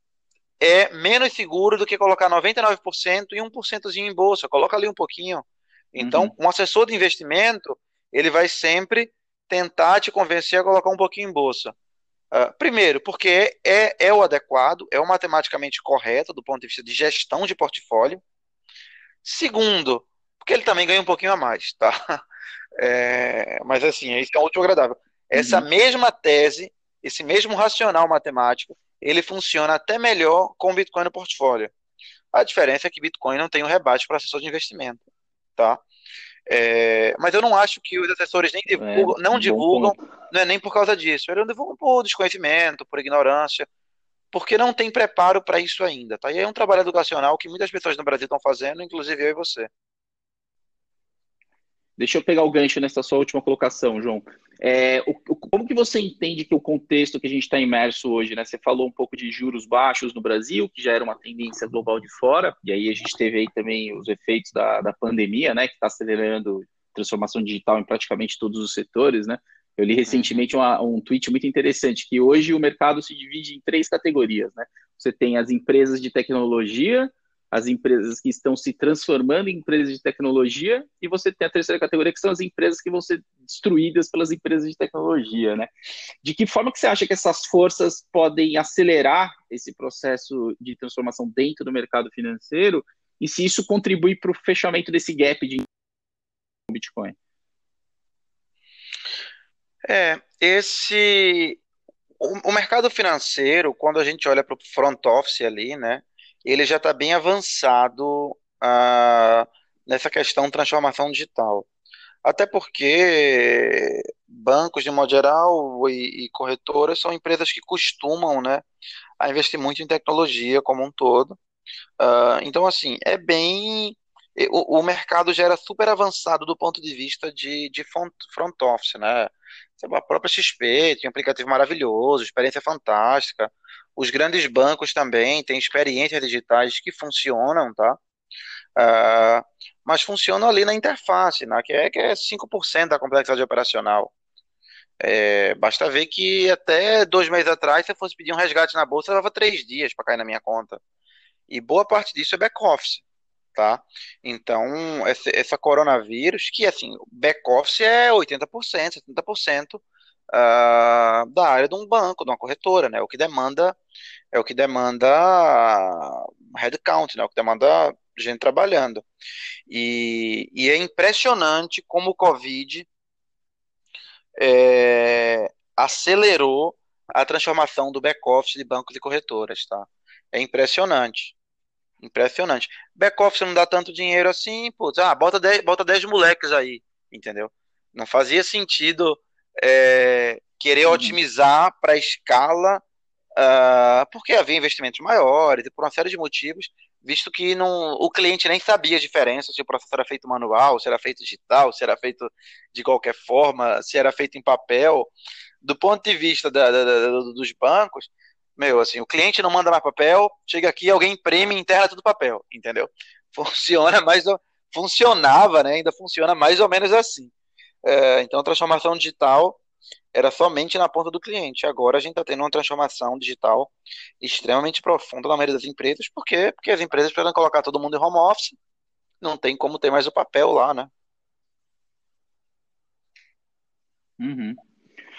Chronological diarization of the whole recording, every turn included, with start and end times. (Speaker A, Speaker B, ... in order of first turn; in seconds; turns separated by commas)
Speaker A: 0.6-11.7, Speaker B: 6.0-6.3, Speaker A: 12.3-18.2, Speaker A: 19.2-21.9, Speaker A: 22.8-31.7, Speaker B: 25.3-25.7, Speaker A: 32.3-35.0, Speaker A: 35.6-35.8, Speaker A: 36.5-43.7, Speaker B: 38.7-40.0, Speaker A: 44.3-49.7, Speaker B: 52.0-85.7, Speaker A: 70.0-70.4, Speaker B: 86.2-95.7, Speaker B: 96.7-97.2, Speaker A: 99.8-101.6, Speaker A: 102.2-111.7, Speaker A: 112.2-118.6, Speaker A: 119.2-121.4, Speaker A: 122.0-138.0, Speaker A: 138.8-144.1, Speaker A: 145.0-150.8, Speaker A: 151.5-153.0, Speaker A: 153.5-163.8, Speaker A: 164.3-169.0, Speaker A: 169.7-172.9, Speaker A: 174.4-181.3, Speaker A: 182.0-192.8, Speaker B: 190.9-191.2, Speaker A: 193.3-217.3, Speaker A: 217.8-219.6, Speaker A: 220.1-228.5, Speaker A: 229.2-230.9, Speaker B: 234.2-234.6